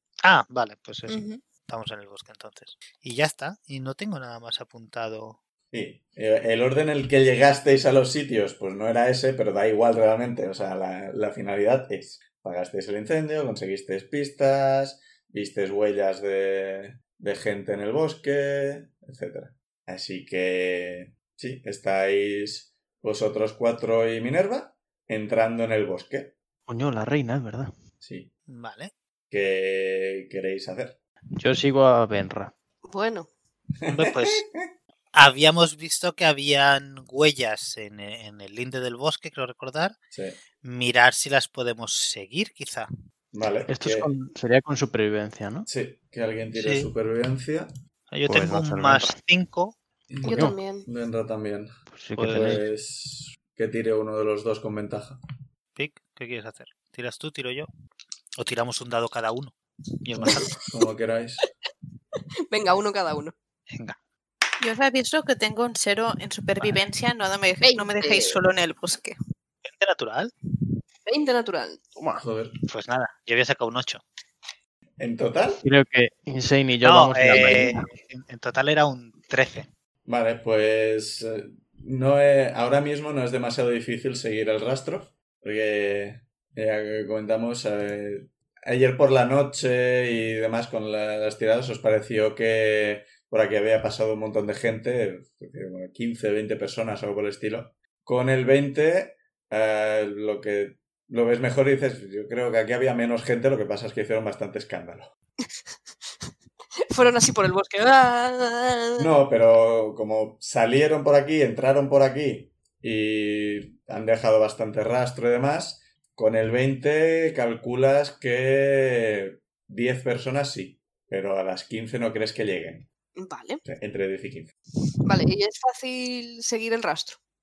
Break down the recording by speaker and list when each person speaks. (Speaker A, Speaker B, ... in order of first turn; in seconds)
Speaker A: 0.2-5.4, 28.5-28.9, 33.9-34.4, 35.1-40.0, 40.6-42.9, 46.5-46.9, 48.1-49.8, 52.2-52.6, 55.8-57.7, 58.4-60.6, 69.6-70.3, 72.7-74.0, 76.8-79.7
Speaker B: 1.1-1.4, 64.6-69.1
Speaker C: 5.7-26.3, 28.0-28.3, 29.3-31.0, 33.8-34.6, 40.1-40.4, 43.3-44.1, 45.6-47.7, 50.1-55.2, 60.2-61.5, 72.2-72.5, 75.0-75.6, 80.0-105.1, 109.0-122.9, 123.6-124.5
Speaker D: 26.7-27.7, 31.4-32.5, 43.7-45.7, 48.3-49.2, 50.3-50.6, 51.9-52.6, 72.0-72.2, 75.6-77.9
Speaker E: 32.8-33.3, 50.2-50.9, 62.5-63.3, 67.6-68.4, 71.1-71.8, 106.9-109.0, 123.2-123.6, 125.0-127.2